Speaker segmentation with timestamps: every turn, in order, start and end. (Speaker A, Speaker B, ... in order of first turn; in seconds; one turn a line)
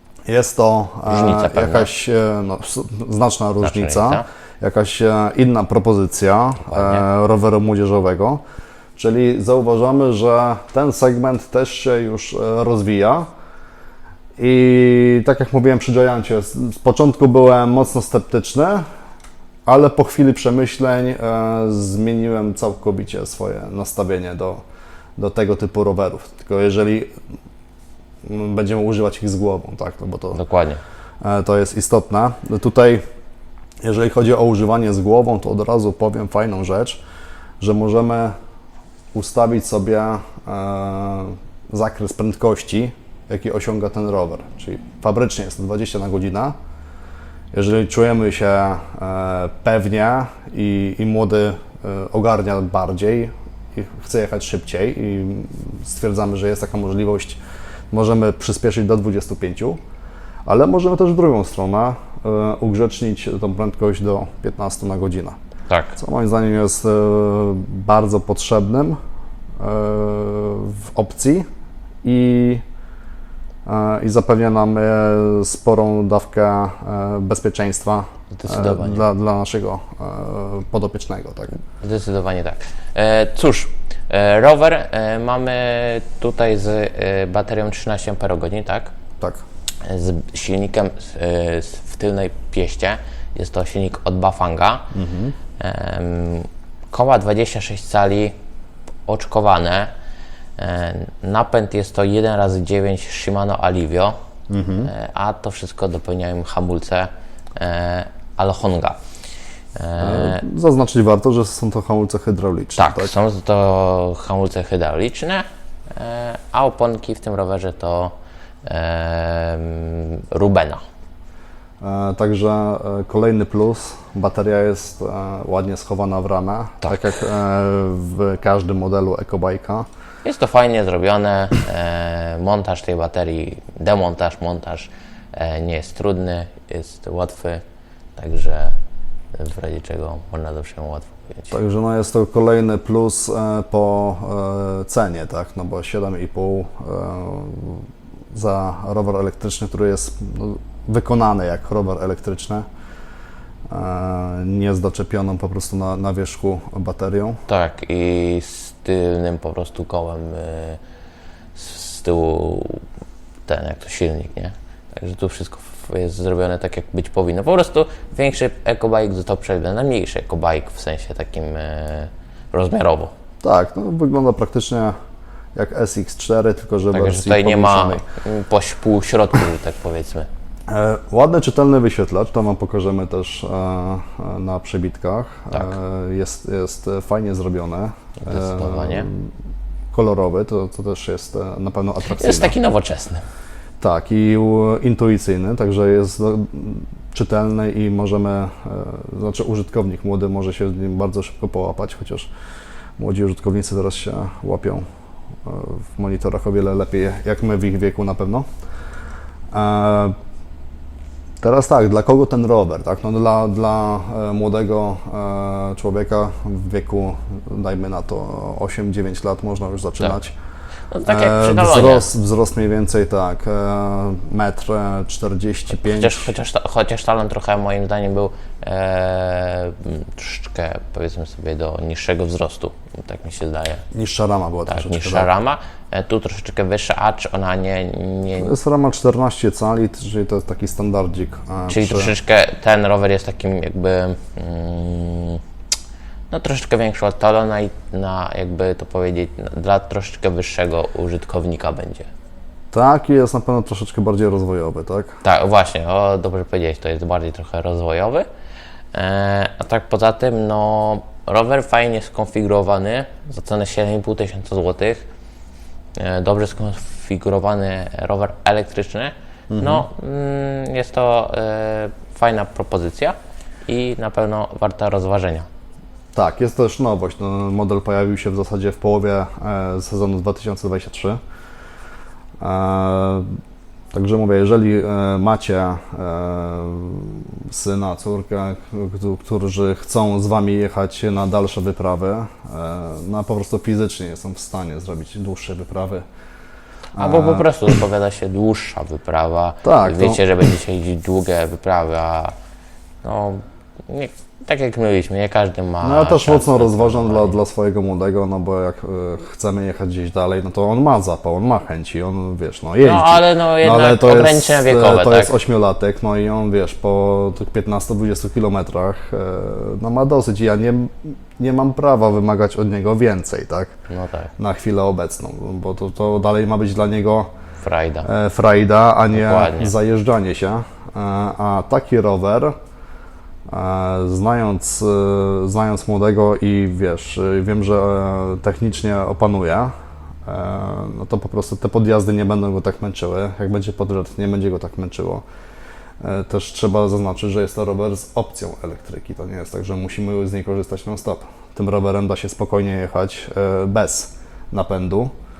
Speaker A: 0.2-8.4
Speaker B: 1.1-1.9
Speaker B: 3.6-4.2
Speaker B: 6.7-7.0
Speaker A: 8.9-13.3
Speaker A: 14.4-18.8
Speaker A: 19.6-24.6
Speaker A: 25.2-27.1
Speaker A: 28.2-30.4
Speaker B: 30.3-30.8
Speaker A: 31.2-33.0
Speaker A: 33.8-37.0
Speaker A: 37.6-38.3
Speaker A: 39.1-46.5
Speaker A: 47.5-57.4
Speaker A: 57.9-59.8
Speaker A: 60.5-65.3
Speaker B: 65.7-66.0
Speaker A: 66.0-69.0
Speaker A: 69.6-71.5
Speaker A: 72.0-72.6
Speaker A: 73.6-81.5
Speaker B: 78.3-79.0
Speaker B: 81.8-88.9
Speaker B: 89.8-94.9
Speaker A: 94.9-95.3
Speaker B: 95.6-98.3
Speaker B: 99.1-99.9
Speaker B: 100.6-104.1
Speaker A: 104.5-104.9
Speaker B: 104.8-109.0
Speaker B: 109.7-110.4
Speaker A: 110.0-113.1
Speaker B: 112.8-118.1
Speaker B: 118.6-120.8
Speaker A: 121.8-129.9
Speaker B: 126.8-127.1
Speaker B: 130.2-137.6
Speaker B: 138.2-138.8
Speaker B: 139.3-141.5
Speaker A: 141.5-152.7
Speaker A: 153.7-157.4
Speaker B: 157.5-160.8
Speaker B: 161.5-162.8
Speaker B: 163.4-173.1
Speaker A: 173.4-174.9
Speaker A: 175.5-178.0
Speaker B: 176.9-180.3
Speaker A: 180.7-189.3
Speaker B: 188.3-189.1
Speaker A: 189.9-192.5
Speaker B: 192.1-193.2
Speaker A: 193.8-202.3
Speaker A: 203.0-204.8
Speaker A: 205.4-208.4
Speaker A: 209.5-210.2
Speaker A: 211.4-220.3
Speaker B: 220.9-222.1
Speaker A: 221.1-226.3
Speaker B: 225.7-233.8
Speaker A: 233.9-235.3
Speaker B: 234.7-238.5
Speaker A: 238.4-242.1
Speaker B: 241.7-245.4
Speaker B: 246.3-252.1
Speaker A: 252.7-255.2
Speaker B: 255.2-258.2
Speaker B: 258.9-265.0
Speaker B: 266.0-273.1
Speaker A: 269.5-269.9
Speaker B: 273.6-275.5
Speaker A: 276.1-281.2
Speaker A: 282.4-283.2
Speaker A: 283.9-296.0
Speaker A: 296.9-297.6
Speaker B: 297.0-302.3
Speaker A: 299.6-300.2
Speaker B: 303.0-307.4
Speaker A: 305.8-323.7
Speaker B: 312.8-315.3
Speaker B: 323.9-324.3
Speaker A: 324.4-327.3
Speaker B: 327.6-328.1
Speaker A: 328.0-332.5
Speaker B: 329.1-329.7
Speaker A: 333.5-339.7
Speaker A: 340.2-345.2
Speaker A: 346.0-355.1